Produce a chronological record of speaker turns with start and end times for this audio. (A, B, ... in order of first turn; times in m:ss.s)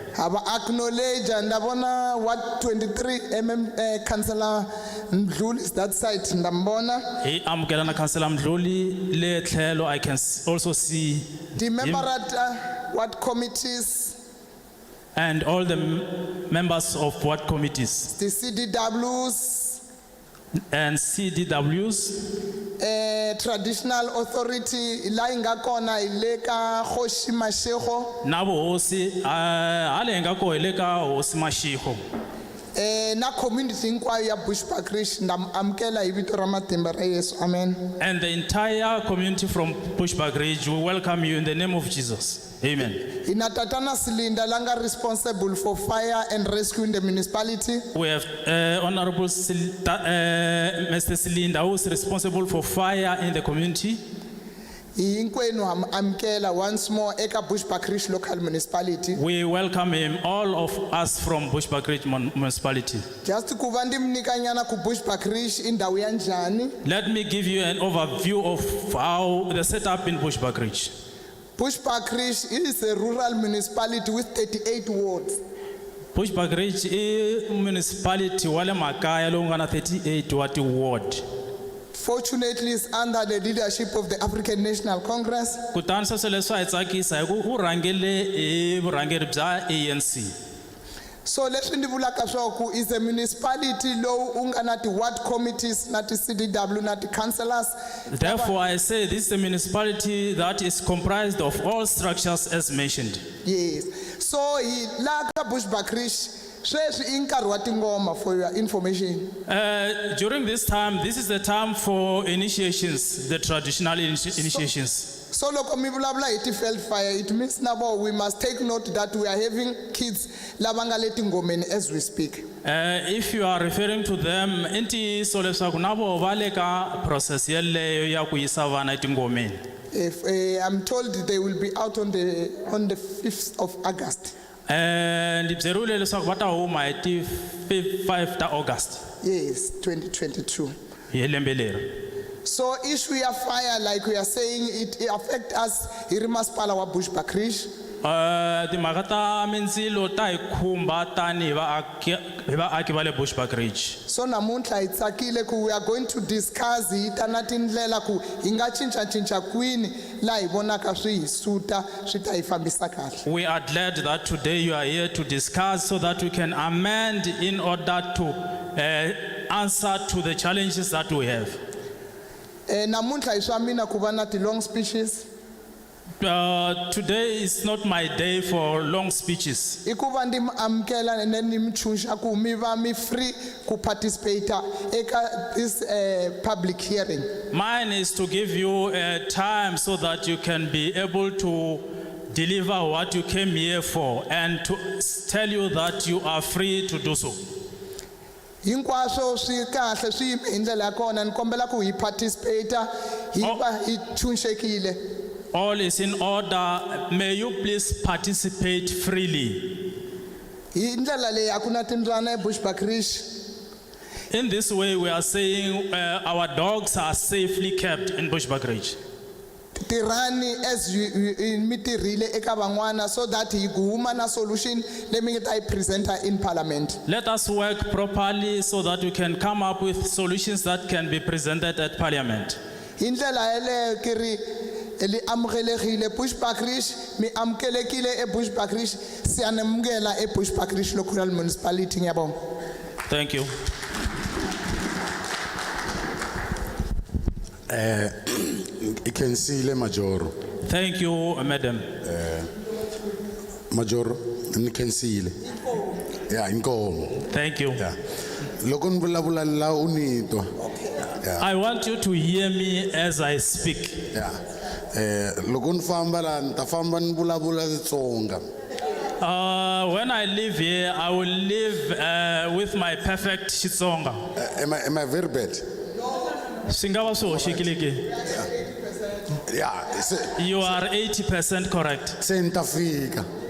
0:00.1-0:07.0 A
0:07.2-0:12.0 B
0:11.6-0:14.2 A
0:15.2-0:18.1 B
0:18.1-0:19.8 A
0:20.7-0:22.2 B
0:22.8-0:28.2 A
0:28.2-0:32.0 B
0:32.7-0:37.9 A
0:38.0-0:43.0 B
0:43.1-0:47.9 A
0:47.9-0:54.0 B
0:55.0-0:59.2 A
0:59.1-1:03.0 B
1:03.2-1:06.7 A
1:06.8-1:10.9 B
1:11.6-1:15.4 A
1:16.1-1:21.2 B
1:21.9-1:25.6 A
1:25.7-1:30.3 B
1:31.2-1:38.5 A
1:38.1-1:43.2 B
1:43.4-1:49.3 A
1:49.4-1:55.1 B
1:55.3-2:02.4 A
2:02.6-2:09.6 B
2:09.9-2:14.3 A
2:14.7-2:19.0 B
2:19.2-2:20.7 A
2:21.1-2:22.0 B
2:22.4-2:27.7 A
2:28.0-2:34.0 B
2:34.1-2:43.2 A
2:43.2-2:51.6 B
2:52.7-2:55.2 A
2:56.2-2:59.8 B
2:59.8-3:07.3 A
3:07.5-3:17.4 B
3:18.6-3:25.0 A
3:25.5-3:29.9 B
3:30.7-3:33.3 A
3:34.3-3:39.0 B
3:39.8-3:47.0 A
3:47.0-3:52.6 B
3:53.0-3:54.4 A
3:55.0-4:02.3 A
4:03.1-4:03.5 B
4:07.7-4:10.3 C
4:10.6-4:11.9 B
4:12.0-4:12.5 C
4:13.7-4:15.4 C
4:16.3-4:17.2 C
4:17.3-4:17.8 B
4:18.6-4:20.6 C
4:21.2-4:21.4 C
4:21.4-4:24.0 B
4:24.1-4:28.5 C
4:29.2-4:34.2 B
4:34.3-4:35.6 C
4:36.7-4:38.2 B
4:39.4-4:40.4 C
4:40.4-4:42.2 B
4:42.2-4:43.3 C